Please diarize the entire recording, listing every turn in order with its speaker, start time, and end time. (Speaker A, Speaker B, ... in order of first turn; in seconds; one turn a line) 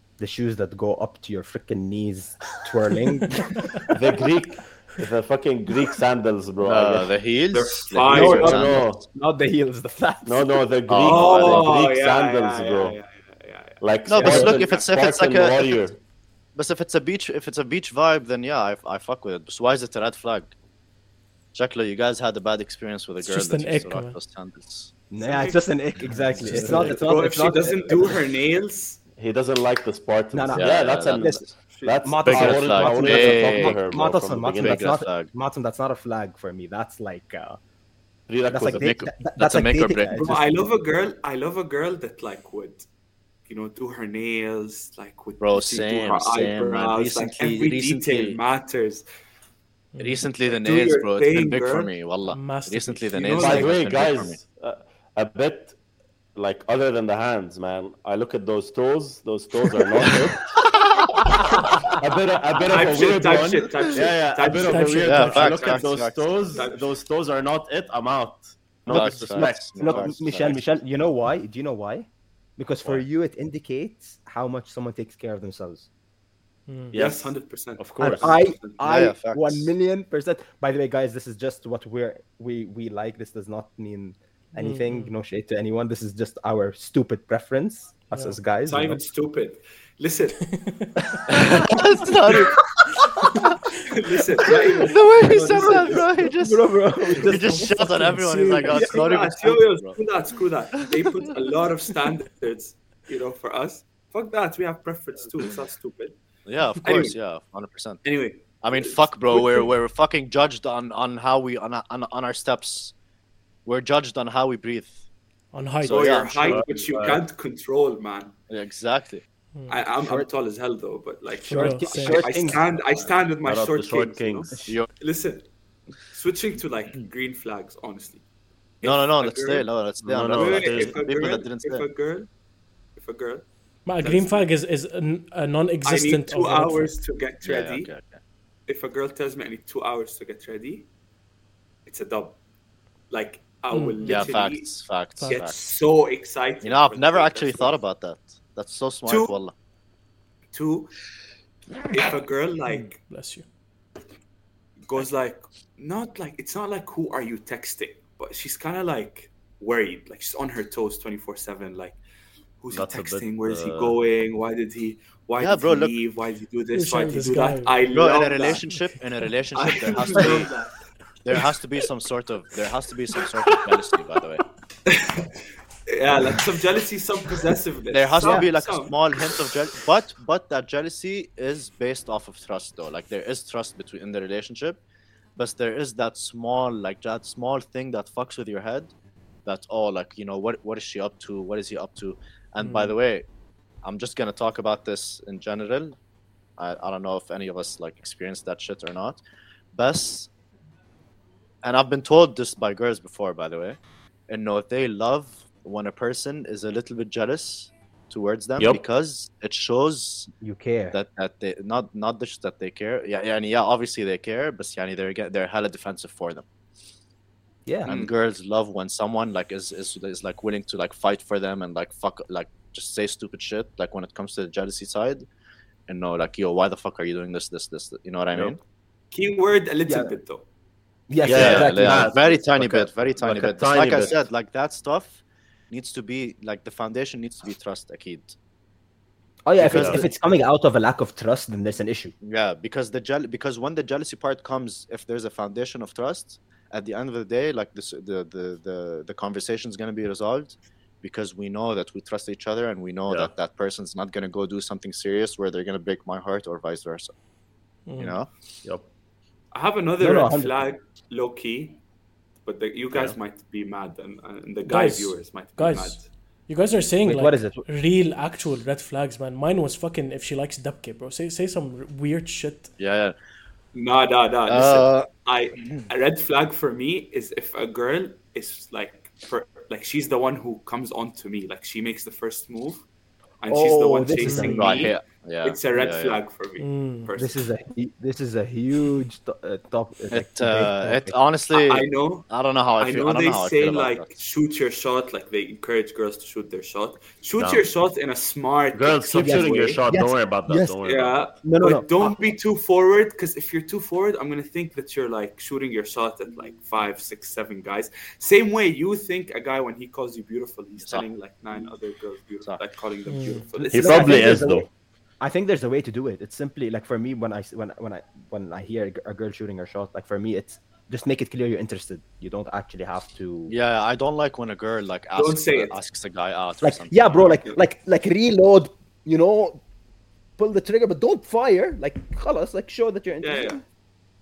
Speaker A: 0.2-3.9
Speaker B: 3.9-7.1
Speaker C: 6.6-9.0
Speaker D: 7.5-8.7
Speaker A: 8.1-10.6
Speaker B: 8.2-9.0
Speaker B: 10.2-13.0
Speaker C: 10.9-11.7
Speaker D: 11.0-14.8
Speaker B: 13.8-16.0
Speaker C: 14.1-15.8
Speaker C: 16.5-20.5
Speaker C: 21.5-24.9
Speaker E: 23.2-24.2
Speaker A: 25.1-28.1
Speaker D: 25.2-25.6
Speaker C: 26.4-27.0
Speaker D: 26.5-29.0
Speaker B: 29.2-34.9
Speaker A: 30.3-37.6
Speaker C: 30.5-31.5
Speaker C: 32.2-35.3
Speaker B: 38.3-39.0
Speaker A: 38.5-40.6
Speaker C: 38.7-40.4
Speaker D: 40.1-42.9
Speaker D: 43.5-49.0
Speaker C: 45.4-48.4
Speaker E: 49.9-50.2
Speaker C: 50.0-54.4
Speaker D: 50.4-51.9
Speaker E: 52.3-53.7
Speaker D: 53.3-53.7
Speaker B: 53.3-55.8
Speaker B: 56.3-60.5
Speaker B: 61.1-70.1
Speaker D: 62.6-65.9
Speaker E: 64.6-65.5
Speaker C: 65.0-66.3
Speaker D: 66.5-66.9
Speaker C: 68.9-70.6
Speaker A: 68.9-75.9
Speaker E: 76.7-77.0
Speaker B: 76.9-78.3
Speaker D: 76.9-78.8
Speaker A: 78.0-89.0
Speaker C: 78.8-79.7
Speaker E: 84.6-85.1
Speaker D: 88.7-90.6
Speaker E: 90.5-90.9
Speaker C: 91.3-93.5
Speaker D: 93.8-96.3
Speaker C: 94.5-96.6
Speaker A: 95.5-97.9
Speaker C: 97.1-100.0
Speaker E: 97.3-98.8
Speaker D: 98.7-106.1
Speaker C: 106.5-108.0
Speaker D: 106.8-107.2
Speaker D: 108.0-109.7
Speaker C: 108.6-112.9
Speaker C: 113.6-115.0
Speaker E: 115.5-116.2
Speaker C: 115.8-116.8
Speaker D: 115.8-118.3
Speaker B: 116.4-117.2
Speaker C: 118.5-119.2
Speaker E: 119.5-119.8
Speaker D: 119.7-125.5
Speaker A: 120.0-120.3
Speaker A: 121.4-122.6
Speaker E: 121.5-122.6
Speaker B: 123.4-124.6
Speaker D: 126.0-128.2
Speaker D: 128.8-129.7
Speaker C: 128.8-131.8
Speaker B: 130.0-131.0
Speaker D: 130.3-132.3
Speaker D: 132.9-133.4
Speaker E: 133.8-136.9
Speaker D: 134.0-134.4
Speaker D: 135.8-137.9
Speaker C: 137.4-138.2
Speaker D: 138.7-140.9
Speaker D: 141.8-142.4
Speaker D: 143.1-147.8
Speaker E: 143.7-144.4
Speaker C: 144.1-145.6
Speaker E: 145.2-145.4
Speaker C: 146.6-149.5
Speaker D: 149.1-149.4
Speaker D: 150.5-150.9
Speaker D: 151.9-153.0
Speaker E: 152.7-153.4
Speaker D: 154.9-162.0
Speaker D: 162.6-168.6
Speaker B: 162.7-164.0
Speaker C: 165.4-165.9
Speaker E: 166.7-167.7
Speaker C: 167.9-170.5
Speaker D: 169.5-170.7
Speaker C: 171.2-174.4
Speaker D: 174.9-179.3
Speaker C: 177.9-184.8
Speaker A: 178.2-178.5
Speaker C: 185.4-188.9
Speaker C: 189.4-193.2
Speaker E: 192.6-192.9
Speaker C: 193.8-195.9
Speaker C: 196.6-199.2
Speaker C: 199.7-200.3
Speaker C: 201.6-210.3
Speaker A: 210.4-210.9
Speaker C: 210.9-216.4
Speaker A: 217.7-217.9
Speaker C: 217.8-225.3
Speaker C: 225.9-228.6
Speaker D: 229.1-230.4
Speaker A: 229.9-230.1
Speaker A: 231.1-232.1
Speaker B: 231.2-234.2
Speaker C: 231.2-238.3
Speaker A: 239.5-242.1
Speaker C: 239.6-240.1
Speaker B: 239.6-240.0
Speaker C: 242.2-257.1
Speaker E: 257.9-258.1
Speaker C: 258.0-258.3
Speaker D: 259.5-261.8
Speaker A: 260.0-260.6
Speaker D: 262.4-266.1
Speaker E: 264.6-272.7
Speaker A: 267.0-267.6
Speaker C: 272.8-273.1
Speaker D: 273.7-282.8
Speaker C: 274.5-275.1
Speaker C: 275.6-275.8
Speaker D: 283.4-287.4
Speaker A: 283.5-284.9
Speaker E: 284.2-284.6
Speaker C: 284.5-286.2
Speaker E: 286.6-287.1
Speaker A: 287.2-291.1
Speaker C: 290.1-294.1
Speaker D: 291.5-299.8
Speaker B: 297.4-297.7
Speaker B: 298.7-301.2
Speaker A: 299.1-300.8
Speaker D: 300.8-314.4
Speaker A: 301.4-302.3
Speaker C: 310.8-311.7
Speaker E: 313.1-313.4
Speaker A: 313.6-314.7
Speaker B: 313.7-314.7
Speaker A: 315.2-323.5
Speaker C: 323.5-327.4
Speaker D: 325.1-325.8
Speaker A: 326.6-329.6
Speaker D: 327.2-327.6
Speaker A: 330.4-333.6
Speaker D: 333.2-333.6